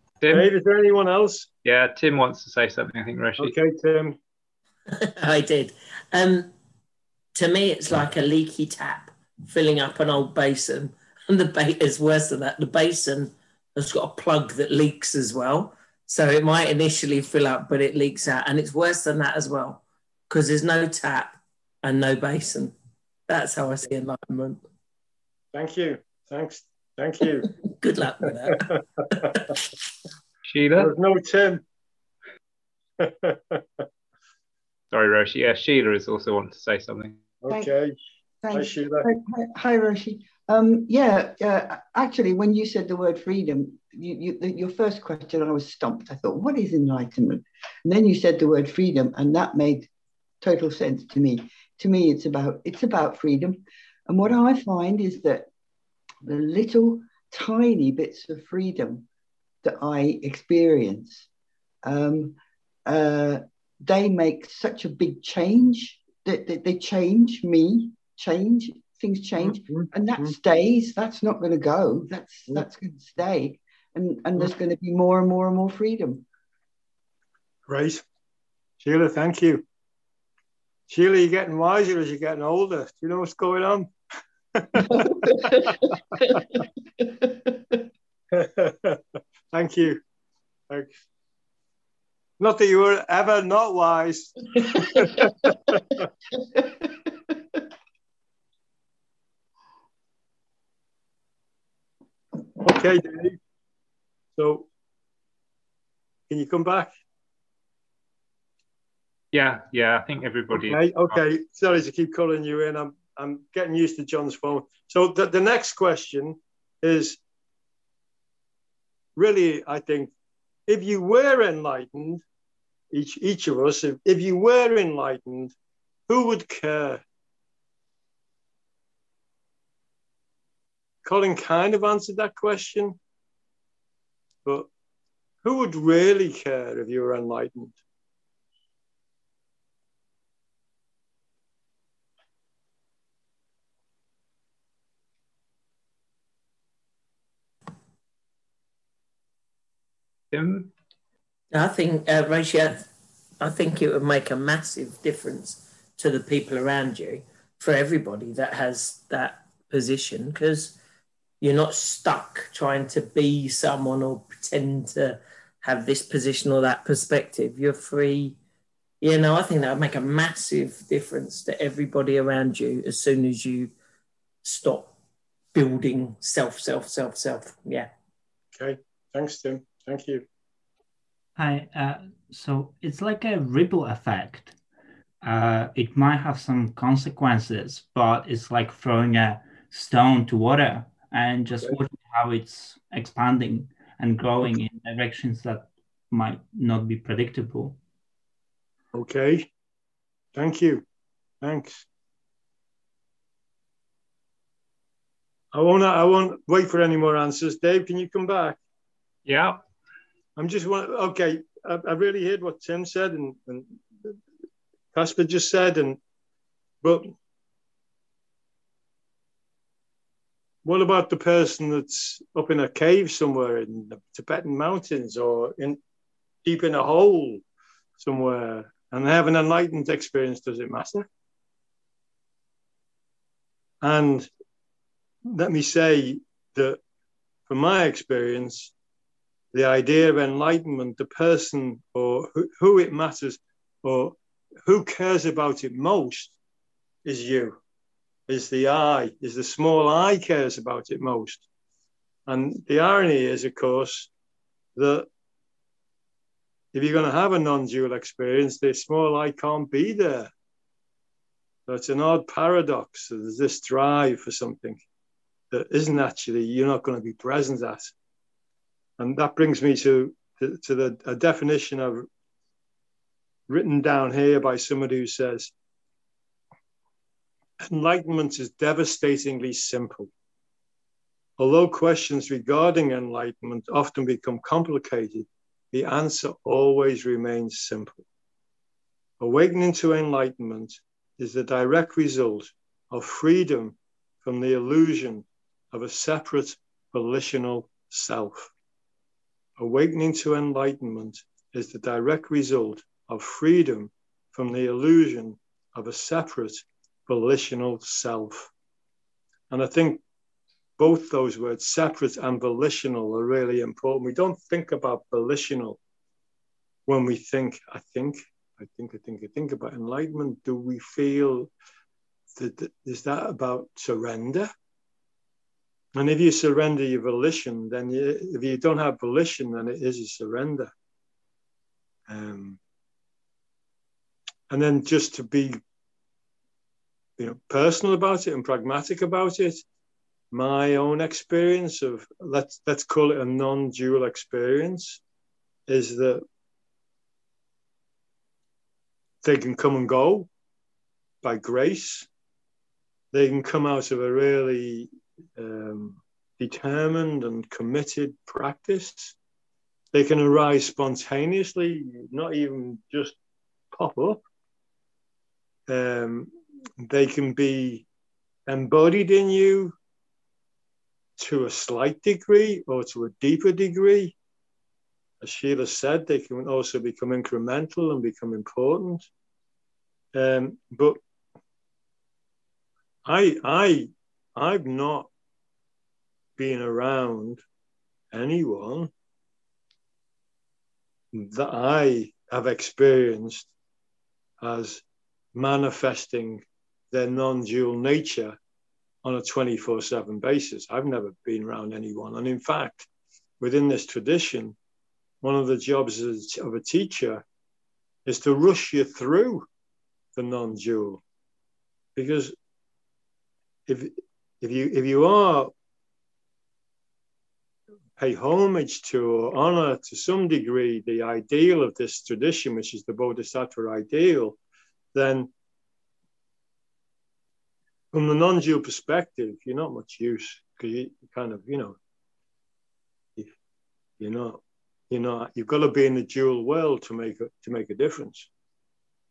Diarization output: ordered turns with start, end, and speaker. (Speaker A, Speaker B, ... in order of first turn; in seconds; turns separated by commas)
Speaker A: 0.2-0.5, Speaker B: 0.3-1.5, Speaker A: 1.6-3.5, Speaker B: 3.4-4.2, Speaker C: 5.0-6.5, Speaker C: 7.3-22.8, Speaker C: 23.3-24.6, Speaker B: 25.5-27.5, Speaker C: 27.8-28.7, Speaker B: 28.6-29.4, Speaker A: 30.4-30.9, Speaker B: 30.8-31.6, Speaker B: 33.0-33.8, Speaker A: 34.9-37.3, Speaker B: 37.4-38.0, Speaker D: 38.4-49.9, Speaker B: 38.5-39.1, Speaker D: 50.4-55.5, Speaker D: 56.2-59.1, Speaker D: 59.6-61.3, Speaker D: 61.8-76.2, Speaker B: 69.4-70.3, Speaker B: 77.7-78.0, Speaker B: 78.8-79.7, Speaker B: 80.9-83.9, Speaker B: 84.5-85.7, Speaker D: 84.9-87.8, Speaker B: 88.3-89.0, Speaker B: 89.5-90.0, Speaker B: 92.4-95.8, Speaker D: 94.7-95.3, Speaker D: 96.4-96.9, Speaker B: 102.6-103.4, Speaker B: 104.4-104.7, Speaker B: 106.3-106.9, Speaker A: 109.3-111.2, Speaker B: 110.5-117.2, Speaker B: 119.2-120.1, Speaker B: 120.7-122.2, Speaker B: 122.9-125.5, Speaker B: 126.1-127.0, Speaker B: 131.0-133.0, Speaker B: 134.4-134.7, Speaker B: 135.4-137.8, Speaker A: 150.3-150.7, Speaker C: 151.5-152.9, Speaker C: 153.4-160.8, Speaker C: 161.4-168.4, Speaker C: 169.0-173.7, Speaker C: 174.4-174.9, Speaker C: 175.5-177.9, Speaker B: 178.6-180.2, Speaker E: 181.4-184.6, Speaker E: 185.2-197.8, Speaker B: 198.9-199.5, Speaker B: 200.3-200.8, Speaker B: 201.4-201.9, Speaker B: 205.5-208.6, Speaker A: 209.3-209.6, Speaker B: 210.4-214.2, Speaker B: 214.9-216.0, Speaker B: 216.8-217.1, Speaker B: 220.7-225.8, Speaker B: 226.4-227.4, Speaker B: 228.0-231.1, Speaker B: 233.8-234.3, Speaker B: 235.3-236.8, Speaker B: 237.5-238.7, Speaker B: 239.5-246.4, Speaker B: 247.1-247.6, Speaker B: 248.3-251.4, Speaker B: 252.3-254.1, Speaker B: 254.8-255.1, Speaker B: 256.7-260.3, Speaker B: 261.7-264.8, Speaker B: 265.5-267.9, Speaker B: 269.0-272.1, Speaker B: 273.5-275.5, Speaker B: 277.6-280.1, Speaker B: 281.4-288.0, Speaker B: 289.2-298.5, Speaker B: 299.6-308.5, Speaker B: 309.5-310.0, Speaker B: 310.8-315.8, Speaker B: 316.9-321.5, Speaker B: 322.4-324.5, Speaker B: 325.9-330.7, Speaker B: 332.1-332.6, Speaker B: 334.5-335.6, Speaker B: 337.2-339.6, Speaker B: 340.3-345.0, Speaker B: 345.7-346.2, Speaker B: 349.2-350.3, Speaker B: 351.2-352.1, Speaker B: 353.1-359.2, Speaker B: 359.9-363.2, Speaker B: 363.7-364.2, Speaker B: 365.7-367.9, Speaker B: 368.5-369.7, Speaker B: 371.2-374.1, Speaker B: 375.2-379.1, Speaker B: 380.1-381.0, Speaker B: 383.1-385.1, Speaker B: 386.4-387.4, Speaker B: 388.1-388.9, Speaker B: 391.1-393.5, Speaker B: 394.4-394.8, Speaker B: 395.4-398.4, Speaker B: 399.0-402.9, Speaker B: 403.4-404.6, Speaker B: 405.2-407.2, Speaker B: 408.1-409.5, Speaker B: 410.2-411.0, Speaker B: 412.0-412.3, Speaker B: 413.7-415.5, Speaker B: 418.0-424.4, Speaker B: 424.9-425.3, Speaker B: 427.9-431.8, Speaker B: 434.0-438.3